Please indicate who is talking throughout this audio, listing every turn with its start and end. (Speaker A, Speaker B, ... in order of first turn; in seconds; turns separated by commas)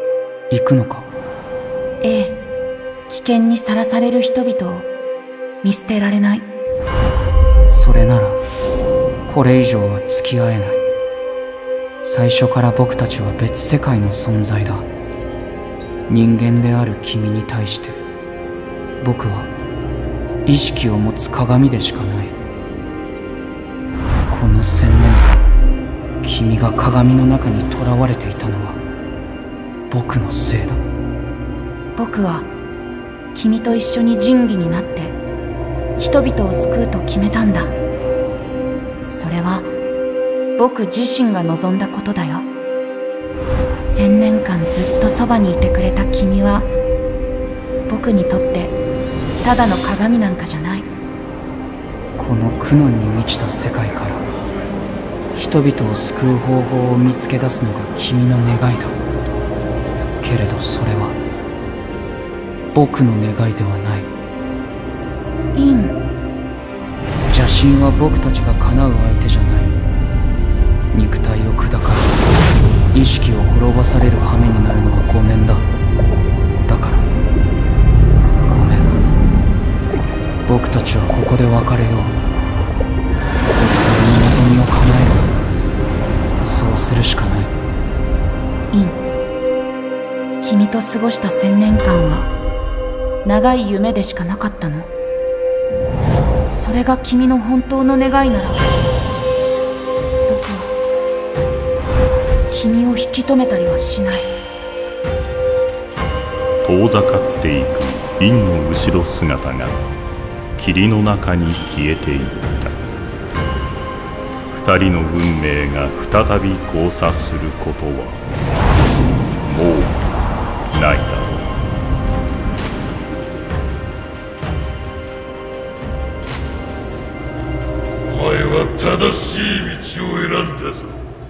Speaker A: 0.5-1.1, Speaker B: 2.0-2.4, Speaker B: 3.1-4.9, Speaker B: 5.6-6.5, Speaker A: 7.7-8.4, Speaker A: 9.3-10.8, Speaker A: 12.0-14.9, Speaker A: 16.1-18.0, Speaker A: 19.0-19.5, Speaker A: 20.4-22.4, Speaker A: 24.3-25.4, Speaker A: 26.2-28.8, Speaker A: 29.9-30.8, Speaker B: 32.0-32.5, Speaker B: 33.3-35.2, Speaker B: 36.0-37.7, Speaker B: 39.1-39.7, Speaker B: 40.6-42.5, Speaker B: 43.9-46.7, Speaker B: 47.9-48.8, Speaker B: 49.4-50.9, Speaker A: 52.2-54.3, Speaker A: 55.3-59.0, Speaker A: 60.2-61.2, Speaker A: 62.7-64.1, Speaker B: 65.5-66.0, Speaker A: 67.3-69.8, Speaker A: 70.9-72.2, Speaker A: 72.9-75.7, Speaker A: 76.7-77.1, Speaker A: 78.4-78.9, Speaker A: 80.5-82.2, Speaker A: 83.5-85.3, Speaker A: 86.4-87.5, Speaker B: 88.7-89.0, Speaker B: 90.4-92.3, Speaker B: 93.2-94.9, Speaker B: 96.5-98.7, Speaker B: 100.3-100.7, Speaker B: 102.5-104.3, Speaker C: 106.6-109.8, Speaker C: 110.6-112.8, Speaker C: 114.5-118.2, Speaker C: 119.4-120.0, Speaker C: 120.7-121.5, Speaker D: 128.0-131.0